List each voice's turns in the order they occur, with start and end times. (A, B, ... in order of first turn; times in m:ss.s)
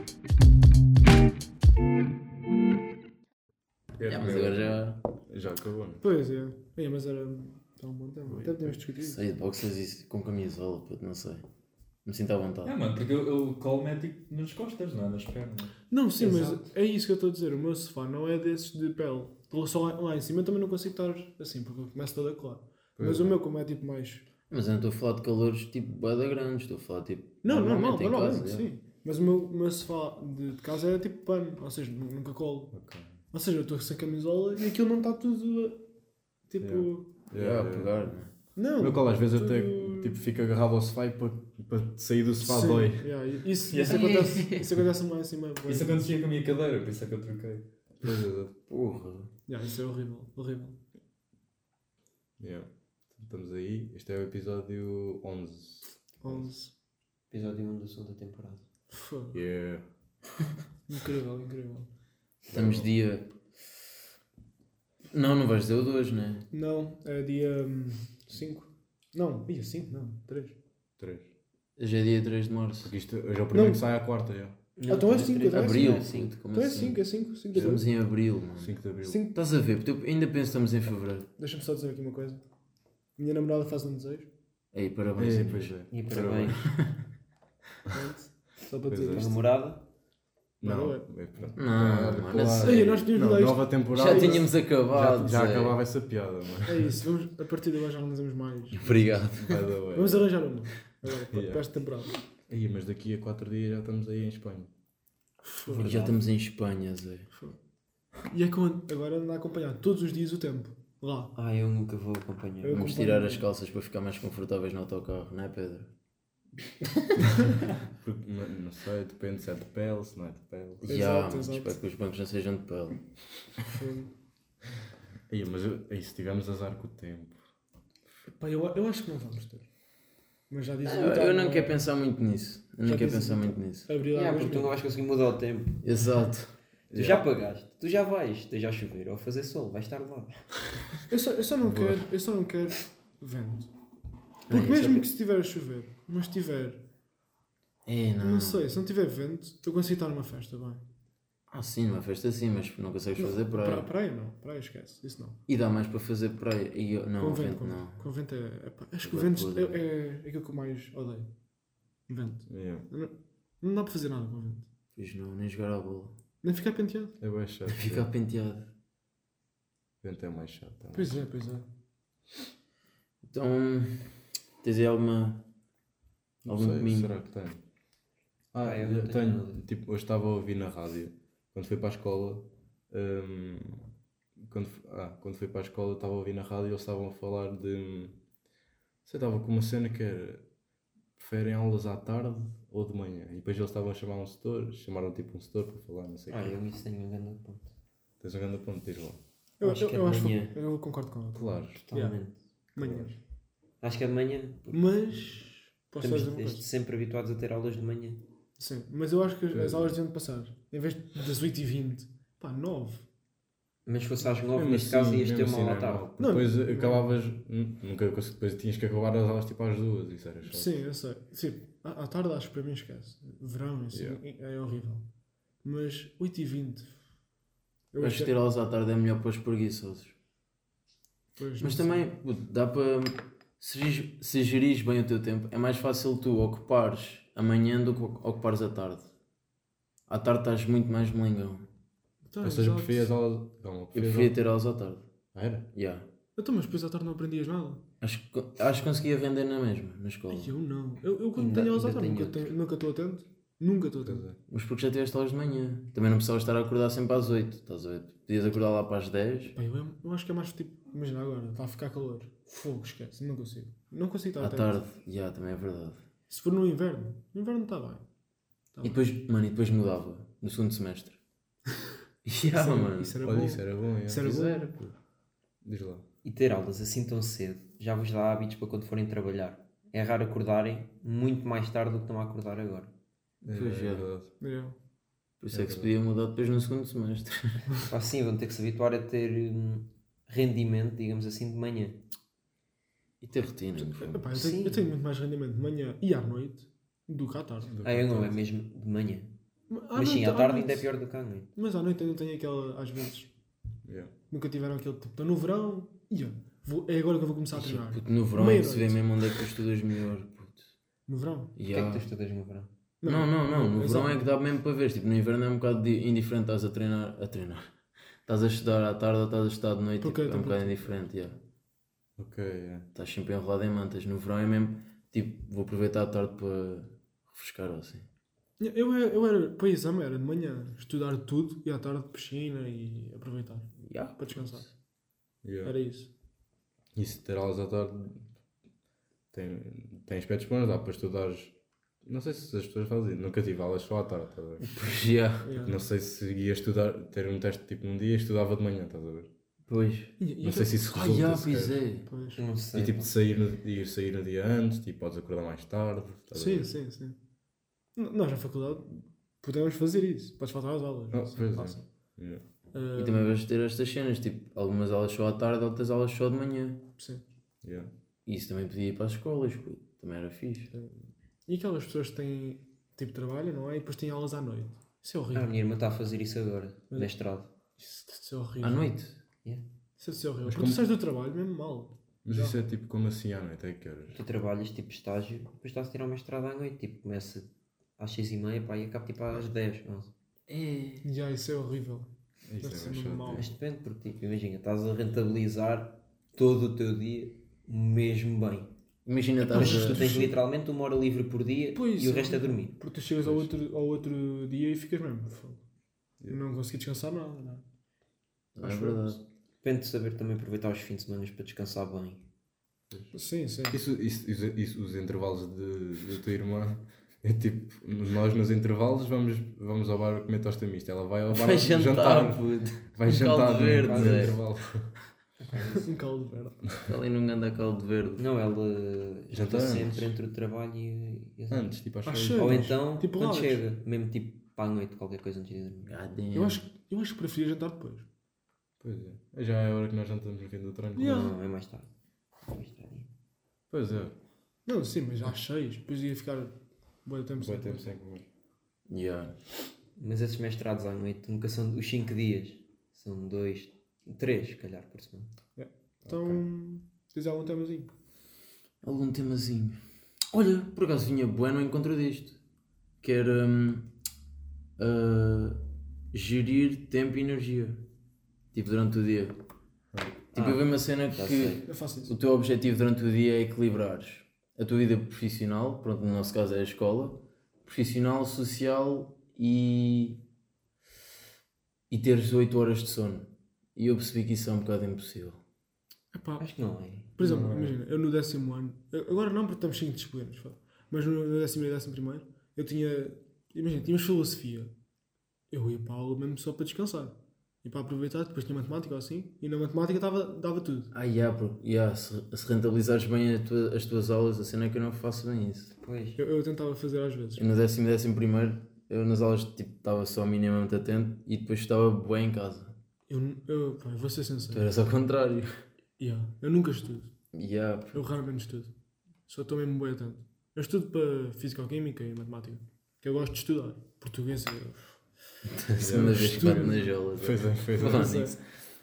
0:04.0-0:04.6 A
0:04.1-0:05.0 B
0:05.3-0:06.0 C
0:06.0-0:09.2 D
0:08.3-0:08.7 C
0:09.0-0:11.4 B
0:12.0-0:12.8 B
0:12.6-0:15.7 A
0:15.9-0:24.2 D
0:16.2-0:16.6 E
0:23.0-0:23.4 C
0:24.5-0:28.7 B
0:27.4-0:32.7 D
0:32.7-0:33.1 C
0:33.3-0:35.8 D
0:36.5-0:37.1 D
0:36.6-0:38.0 C
0:37.3-0:38.3 B
0:38.6-0:40.2 D
0:38.8-0:43.1 C
0:42.4-0:46.1 D
0:43.7-0:44.3 A
0:43.8-0:44.7 B
0:45.6-0:47.7 A
0:48.0-0:48.5 C
0:48.7-0:49.3 B
0:49.5-0:50.8 D
0:52.4-0:56.5 C
0:56.2-0:56.7 D
0:57.3-0:58.6 E
0:58.9-0:59.4 D
0:59.3-0:59.8 C
1:00.9-1:01.9 D
1:02.5-1:02.9 C
1:02.5-1:03.3 B
1:05.1-1:06.4 B
1:06.5-1:10.5 D
1:11.0-1:11.3 C
1:11.8-1:12.9 B
1:12.8-1:14.5 C
1:13.5-1:13.8 D
1:14.8-1:16.3 E
1:14.9-1:16.0 D
1:15.5-1:17.0 B
1:16.5-1:17.8 D
1:17.5-1:18.7 B
1:17.5-1:17.8 C
1:18.6-1:19.2 C
1:19.0-1:19.3 D
1:19.3-1:21.3 B
1:21.4-1:22.4 D
1:23.2-1:24.3 D
1:24.7-1:25.7 B
1:25.2-1:26.7 C
1:25.9-1:26.6 E
1:26.6-1:26.8 B
1:27.9-1:29.4 D
1:28.9-1:29.3 C
1:29.1-1:29.8 E
1:30.6-1:31.0 D
1:30.6-1:36.9 C
1:31.6-1:32.9 B
1:32.6-1:34.5 D
1:33.9-1:35.8 B
1:36.7-1:39.3 D
1:38.7-1:39.7 B
1:39.3-1:40.3 C
1:39.9-1:42.1 D
1:41.1-1:41.6 C
1:42.5-1:44.7 C
1:45.4-1:45.9 D
1:45.6-1:46.2 E
1:45.8-1:47.3 B
1:48.2-1:51.3 D
1:51.3-1:52.8 E
1:52.6-1:53.5 D
1:52.7-1:55.9 B
1:57.9-2:00.9 C
2:00.8-2:03.0 B
2:00.8-2:01.7 D
2:03.6-2:04.1 D
2:05.3-2:07.4 C
2:08.2-2:09.6 D
2:10.5-2:11.8 D
2:10.8-2:13.9 B
2:12.8-2:14.8 D
2:14.1-2:15.8 E
2:15.8-2:16.5 B
2:16.9-2:17.3 C
2:16.9-2:20.4 E
2:21.1-2:23.7 D
2:21.6-2:22.0 C
2:24.5-2:26.8 D
2:24.5-2:25.1 B
2:27.8-2:28.7 B
2:28.2-2:30.8 D
2:31.5-2:33.9 B
2:33.2-2:35.4 D
2:35.5-2:38.0 B
2:37.2-2:41.3 D
2:39.0-2:39.8 B
2:42.1-2:44.6 D
2:42.5-2:42.9 C
2:45.0-2:46.1 B
2:46.4-2:47.2 D
2:47.2-2:48.1 C
2:47.7-2:48.7 B
2:50.0-2:51.2 C
2:50.9-2:51.7 D
2:53.2-2:54.0 B
2:54.6-2:55.4 B
2:56.4-2:57.6 C
2:56.5-2:57.1 B
2:58.5-3:08.2 C
2:58.6-2:59.6 E
3:09.0-3:10.4 C
3:11.2-3:16.6 C
3:16.3-3:17.7 E
3:18.2-3:19.2 C
3:19.6-3:22.2 D
3:19.6-3:20.6 E
3:21.3-3:21.8 C
3:21.7-3:22.4 E
3:22.8-3:23.1 D
3:22.8-3:23.1 C
3:23.8-3:24.9 E
3:24.7-3:26.6 D
3:26.0-3:28.2 E
3:28.6-3:33.0 D
3:29.5-3:29.9 C
3:33.8-3:36.0 E
3:34.5-3:40.7 C
3:36.2-3:37.0 D
3:40.4-3:45.0 D
3:43.9-3:44.2 C
3:45.6-3:46.9 D
3:47.9-3:48.3 D
3:48.0-3:50.1 B
3:51.4-3:52.0 D
3:51.6-3:59.1 B
4:00.1-4:01.6 B
4:02.3-4:03.1 D
4:02.4-4:04.3 C
4:03.9-4:05.0 B
4:05.3-4:05.6 C
4:05.7-4:06.1 B
4:06.4-4:07.8 D
4:08.0-4:10.5 B
4:10.3-4:14.2 D
4:11.4-4:12.5 E
4:14.0-4:14.4 C
4:14.5-4:19.5 B
4:19.5-4:24.8 D
4:24.4-4:26.0 B
4:26.3-4:28.0 D
4:28.7-4:29.0 D
4:28.8-4:31.2 B
4:32.2-4:33.2 B
4:32.5-4:34.8 D
4:33.2-4:34.5 C
4:34.2-4:34.8 B
4:35.6-4:36.0 C
4:36.2-4:42.9 E
4:43.4-4:44.3 C
4:43.5-4:44.0 B
4:44.4-4:44.8 D
4:45.4-4:47.6 B
4:45.5-4:45.9 C
4:47.9-4:52.0 E
4:53.2-4:54.5 B
4:53.8-4:57.7 D
4:54.3-4:54.9 E
4:57.6-4:58.4 C
4:57.8-4:59.3 E
4:59.7-5:00.9 D
4:59.9-5:01.5 E
5:01.5-5:03.3 D
5:03.8-5:04.1 C
5:04.3-5:09.0 D
5:07.5-5:10.7 B
5:11.1-5:11.5 D
5:11.6-5:12.0 B
5:11.6-5:12.7 E
5:13.0-5:14.2 D
5:13.0-5:17.7 B
5:18.2-5:21.4 B
5:20.0-5:21.0 D
5:22.2-5:22.9 C
5:22.9-5:28.0 B
5:28.6-5:34.6 D
5:33.8-5:34.7 B
5:35.4-5:35.7 C
5:35.6-5:36.1 D
5:36.9-5:38.2 C
5:39.3-5:44.8 C
5:44.6-5:45.5 B
5:45.4-5:45.8 D
5:45.6-5:49.3 C
5:49.7-5:50.1 B
5:50.2-5:50.9 D
5:50.4-5:51.8 C
5:50.9-5:52.1 B
5:52.1-5:52.4 D
5:52.3-5:53.2 E
5:52.7-5:56.7 C
5:56.3-5:57.2 D
5:58.0-6:01.8 D
6:01.1-6:02.4 C
6:02.7-6:03.3 D
6:02.9-6:06.8 B
6:07.0-6:07.2 D
6:07.6-6:07.9 C
6:08.2-6:10.7 B
6:10.7-6:15.5 D
6:15.3-6:17.5 E
6:17.8-6:18.9 D
6:18.6-6:19.2 B
6:20.0-6:22.6 D
6:20.4-6:20.8 C
6:22.2-6:24.2 C
6:24.1-6:30.1 E
6:30.5-6:31.1 B
6:31.0-6:32.1 D
6:32.5-6:33.5 C
6:32.6-6:33.4 D
6:33.3-6:38.7 E
6:39.0-6:40.2 B
6:39.5-6:42.8 E
6:39.5-6:40.3 D
6:41.7-6:45.6 D
6:43.2-6:43.5 C
6:46.3-6:47.6 D
6:48.5-6:49.2 B
6:48.6-6:49.2 D
6:49.6-6:52.2 E
6:53.1-6:53.8 D
6:53.7-7:02.4 C
7:01.3-7:04.4 B
7:02.9-7:04.9 C
7:03.8-7:04.4 E
7:05.4-7:05.8 E
7:05.7-7:06.6 D
7:06.8-7:08.2 B
7:08.2-7:11.8 E
7:09.3-7:10.1 C
7:11.5-7:12.7 C
7:12.0-7:13.6 D
7:12.3-7:15.9 E
7:15.8-7:16.6 B
7:16.3-7:18.0 D
7:18.8-7:21.3 C
7:20.9-7:21.9 E
7:21.0-7:21.3 D
7:22.4-7:23.1 E
7:23.7-7:24.1 C
7:24.6-7:26.5 D
7:27.0-7:27.8 D
7:27.4-7:28.2 C
7:28.9-7:29.3 B
7:30.0-7:35.3 E
7:35.6-7:37.9 D
7:36.0-7:36.4 C
7:38.8-7:39.8 B
7:40.3-7:42.4 B
7:43.0-7:43.9 B
7:44.8-7:45.6 B
7:46.1-7:47.8 B
7:48.5-7:49.4 B
7:49.9-7:50.2 C
7:50.3-7:51.6 E
7:50.3-8:00.2 B
7:51.6-7:52.1 D
8:01.9-8:05.4 B
8:06.1-8:06.4 D
8:06.4-8:07.1 E
8:07.2-8:14.7 D
8:07.2-8:07.8 C
8:15.5-8:20.9 D
8:20.9-8:25.7 B
8:25.8-8:26.2 E
8:26.2-8:27.4 D
8:27.4-8:32.7 B
8:33.1-8:34.7 D
8:34.5-8:35.5 B
8:36.0-8:37.1 D
8:37.3-8:38.1 B
8:37.9-8:38.7 D
8:39.3-8:45.0 D
8:45.6-8:48.4 B
8:45.8-8:47.0 D
8:45.8-8:48.2 C
8:47.8-8:48.4 D